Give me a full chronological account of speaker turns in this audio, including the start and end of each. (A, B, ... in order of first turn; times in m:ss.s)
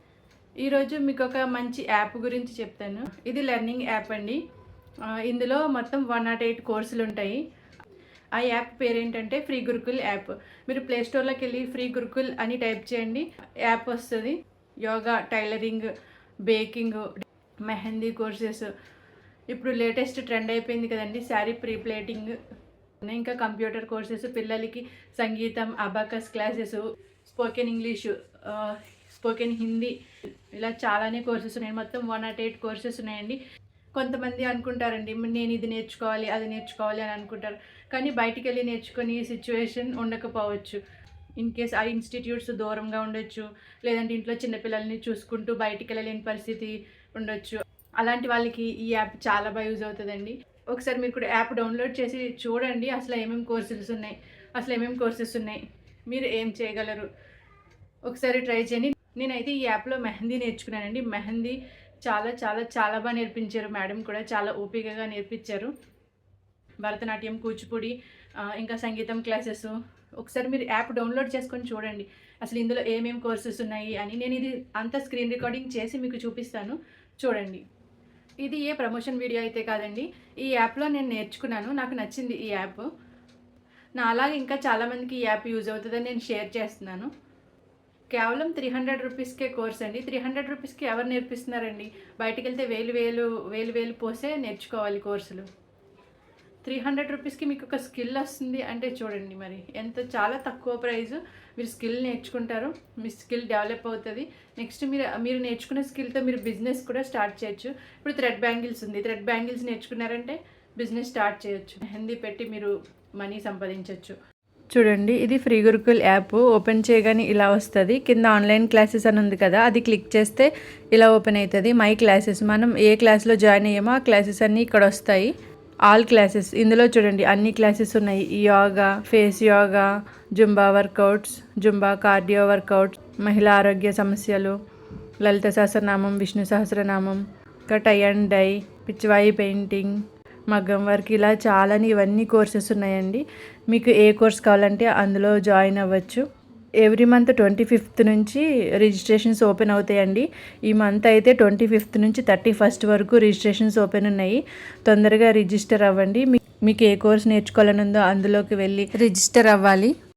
0:00.6-0:04.4 A
0:05.1-0:07.4 A
0:08.3-0:15.9 A
0:16.4-0:18.7 A
0:19.5-0:22.4 A
0:23.0-0:30.0 A
0:30.5-0:33.4 A
0:34.0-0:40.8 A
0:41.4-0:57.1 A
0:58.1-1:05.7 A
1:06.8-1:17.6 A
1:18.4-1:22.9 A
1:24.0-1:27.1 A
1:28.1-1:35.5 A
1:36.6-1:54.2 A
1:54.7-2:05.3 A
2:05.9-2:14.6 A
2:15.2-2:26.2 A
2:26.8-2:39.9 A